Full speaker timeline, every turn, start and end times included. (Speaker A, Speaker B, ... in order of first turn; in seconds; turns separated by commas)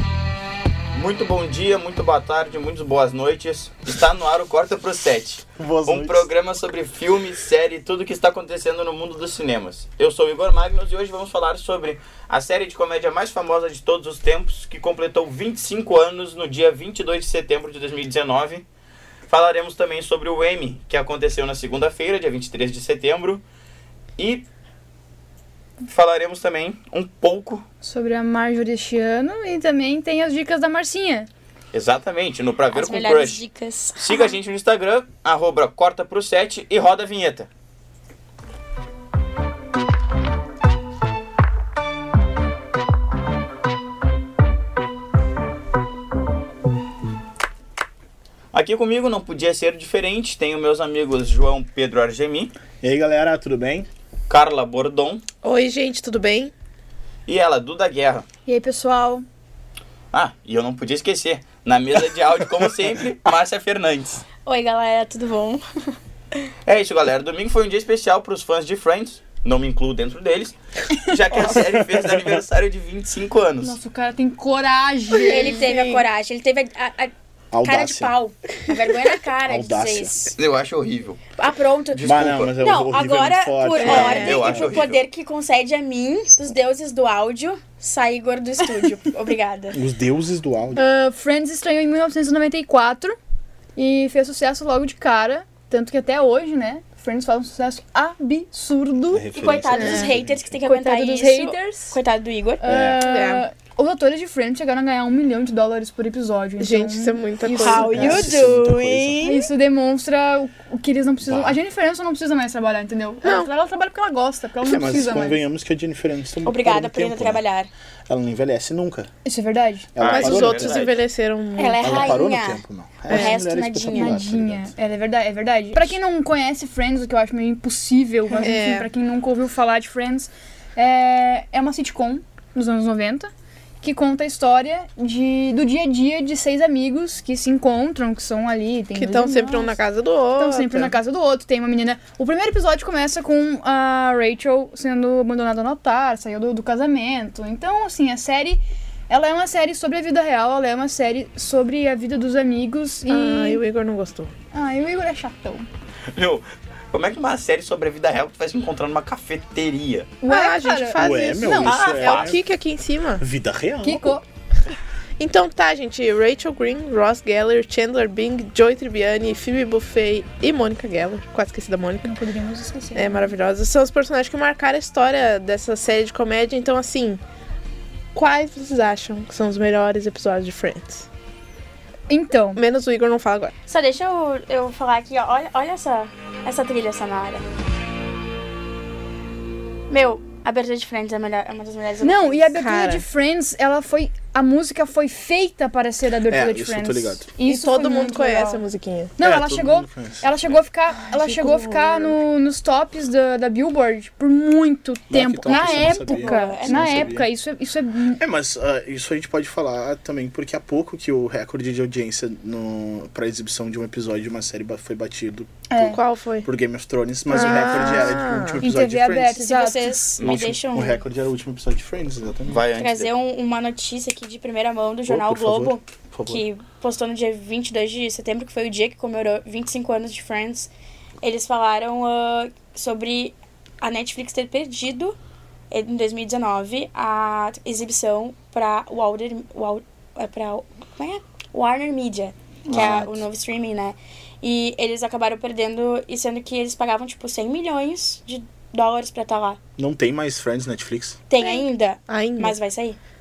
Speaker A: 0.9-18.6, Speaker B: 5.6-6.3, Speaker A: 19.3-23.4, Speaker A: 24.2-24.4, Speaker A: 25.9-27.6, Speaker C: 27.8-31.3, Speaker A: 31.7-33.4, Speaker D: 32.7-34.3, Speaker A: 34.0-37.5, Speaker A: 48.5-52.5, Speaker B: 52.8-53.9, Speaker A: 54.3-55.2, Speaker E: 55.4-56.5, Speaker A: 57.3-58.2, Speaker C: 58.5-59.2, Speaker A: 60.1-64.2, Speaker D: 64.4-65.6, Speaker A: 66.7-73.8, Speaker B: 71.3-72.4, Speaker C: 73.6-75.7, Speaker E: 75.1-76.0, Speaker D: 75.2-80.3, Speaker B: 77.5-78.1, Speaker B: 79.4-80.3, Speaker A: 80.3-81.4, Speaker D: 81.3-89.8, Speaker A: 81.9-82.5, Speaker B: 82.0-84.9, Speaker E: 83.8-84.5, Speaker A: 83.8-85.0, Speaker B: 89.7-90.8, Speaker C: 90.7-93.2, Speaker C: 93.8-99.3, Speaker B: 99.1-100.6, Speaker D: 99.3-102.7, Speaker E: 99.8-100.1, Speaker C: 100.6-102.0, Speaker C: 102.6-108.3, Speaker B: 102.6-103.0, Speaker E: 103.0-103.4, Speaker E: 106.6-108.1, Speaker D: 107.6-109.5, Speaker B: 107.8-109.2, Speaker C: 109.2-115.4, Speaker B: 111.2-111.6, Speaker E: 113.2-113.5, Speaker B: 114.6-117.4, Speaker D: 116.4-117.7, Speaker B: 118.1-119.1, Speaker C: 119.2-119.9, Speaker B: 119.9-120.9, Speaker A: 120.0-121.0, Speaker E: 120.0-122.2, Speaker D: 121.5-124.2, Speaker B: 121.8-124.7, Speaker E: 123.1-123.3, Speaker C: 123.9-133.3, Speaker E: 128.4-128.9, Speaker C: 133.8-139.8, Speaker E: 138.9-140.9, Speaker C: 140.3-153.6, Speaker E: 153.1-154.3, Speaker C: 154.5-155.7, Speaker A: 156.1-160.1, Speaker E: 160.2-163.2, Speaker C: 160.2-161.8, Speaker B: 161.0-162.4, Speaker A: 161.6-162.3, Speaker B: 163.2-164.2, Speaker C: 163.8-164.2, Speaker E: 165.2-172.1, Speaker C: 172.0-173.3, Speaker E: 172.9-177.2, Speaker E: 178.1-181.1, Speaker C: 182.1-182.6, Speaker E: 182.5-183.5, Speaker D: 183.7-187.4, Speaker D: 189.9-192.5, Speaker C: 192.0-198.6, Speaker E: 192.6-193.0, Speaker B: 196.3-197.3, Speaker E: 197.4-199.1, Speaker C: 199.2-208.2, Speaker B: 199.2-200.6, Speaker E: 201.0-202.2, Speaker B: 205.1-207.3, Speaker D: 205.4-207.1, Speaker B: 208.2-219.4, Speaker C: 215.7-216.0, Speaker E: 215.8-216.5, Speaker C: 217.3-220.0, Speaker E: 217.3-218.6, Speaker D: 219.4-221.0, Speaker B: 220.2-222.7, Speaker A: 220.2-220.5, Speaker A: 222.5-223.1, Speaker D: 222.8-230.7, Speaker B: 225.1-226.4, Speaker D: 231.2-235.2, Speaker D: 235.7-249.6, Speaker B: 242.7-243.2, Speaker B: 249.8-251.2, Speaker D: 251.3-253.0, Speaker E: 252.1-252.6